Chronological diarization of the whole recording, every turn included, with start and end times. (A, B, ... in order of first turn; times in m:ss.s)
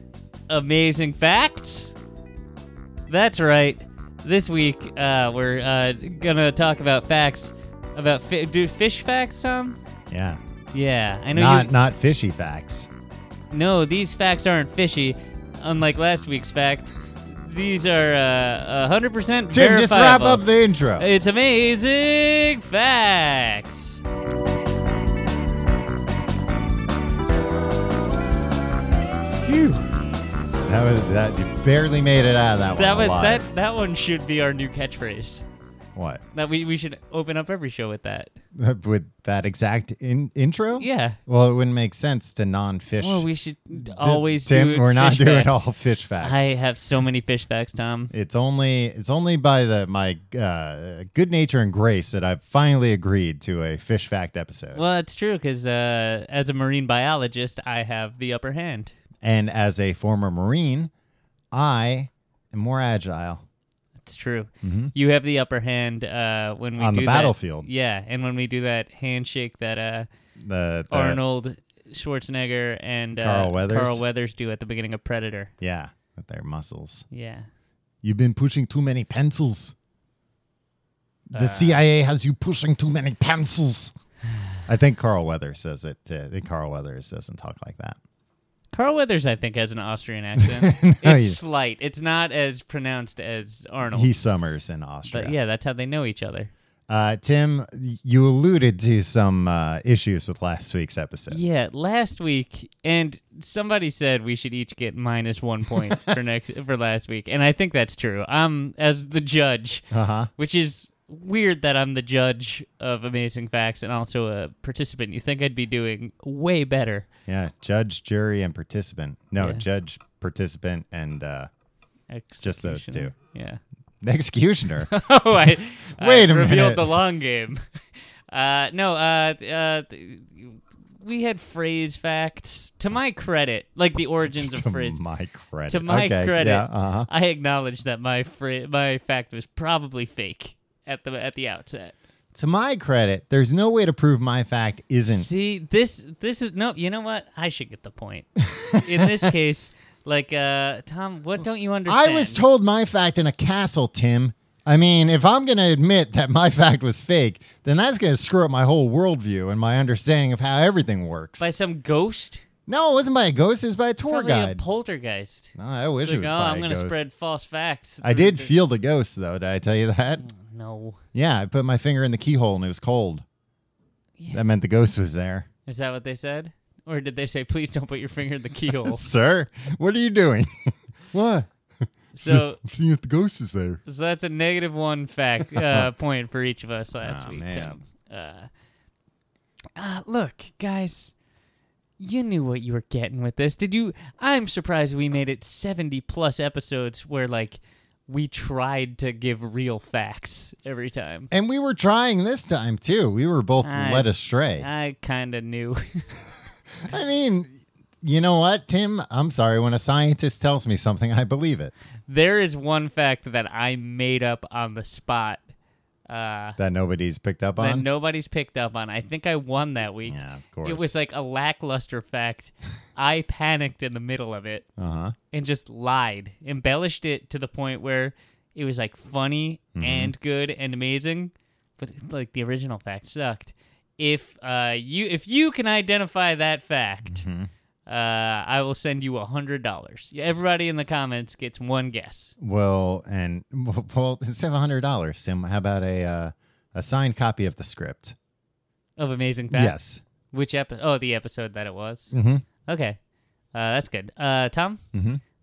0:00.5-0:02.0 A
0:03.1-0:09.8 A
0:10.1-0:10.4 B
0:10.7-0:11.7 A
0:11.3-0:12.9 B
0:13.5-0:20.5 A
0:19.5-0:21.1 B
0:21.0-0:24.0 A
0:29.4-0:29.8 A
0:30.6-0:33.5 B
0:32.8-0:35.4 A
0:36.0-0:36.2 B
0:36.3-0:38.3 A
0:38.6-0:43.3 B
0:40.8-0:41.2 A
0:43.0-0:45.7 A
0:43.8-0:46.5 B
0:46.2-0:48.1 A
0:48.1-0:54.8 B
0:54.8-0:58.9 A
0:59.2-1:00.9 B
1:01.5-1:03.4 B
1:04.0-1:10.1 A
1:04.6-1:04.9 B
1:06.8-1:07.7 B
1:10.4-1:11.2 B
1:10.9-1:15.5 A
1:13.1-1:14.0 B
1:15.6-1:17.0 B
1:17.1-1:17.5 A
1:18.0-1:19.7 B
1:21.3-1:23.9 B
1:21.3-1:21.8 A
1:24.7-1:28.0 B
1:28.7-1:34.1 A
1:30.4-1:31.4 B
1:33.9-1:35.4 B
1:35.1-1:36.5 A
1:36.9-1:41.4 B
1:41.3-1:57.1 A
1:49.9-1:50.3 B
1:57.3-2:01.5 B
2:02.1-2:03.6 A
2:02.4-2:03.1 B
2:04.0-2:04.9 B
2:04.9-2:07.6 A
2:06.0-2:06.9 B
2:08.3-2:15.0 A
2:14.3-2:17.1 B
2:15.7-2:22.0 A
2:22.3-2:25.3 B
2:25.1-2:32.4 A
2:28.6-2:29.3 B
2:31.9-2:41.5 B
2:41.4-2:42.4 A
2:42.7-2:44.6 B
2:44.1-2:48.5 A
2:45.6-2:47.0 B
2:48.0-2:50.3 B
2:50.2-2:51.0 A
2:51.1-2:53.2 B
2:54.3-2:55.5 B
2:55.7-2:59.0 A
2:58.8-3:03.8 B
3:02.2-3:02.6 A
3:03.9-3:08.5 A
3:05.6-3:05.9 B
3:07.0-3:07.8 B
3:09.8-3:11.1 A
3:12.0-3:21.3 A
3:21.3-3:24.7 B
3:23.6-3:26.0 A
3:26.8-3:31.7 B
3:32.1-3:35.4 A
3:36.1-3:36.6 A
3:36.6-3:37.9 B
3:37.6-3:44.7 A
3:40.1-3:40.9 B
3:44.8-3:45.2 B
3:45.3-3:57.2 A
3:49.8-3:50.1 B
3:57.1-3:57.5 B
3:57.9-4:02.4 A
4:02.4-4:08.2 B
4:09.0-4:09.8 A
4:09.5-4:10.0 B
4:10.3-4:12.1 A
4:12.1-4:12.4 B
4:12.6-4:13.0 A
4:13.5-4:14.8 A
4:14.9-4:15.2 B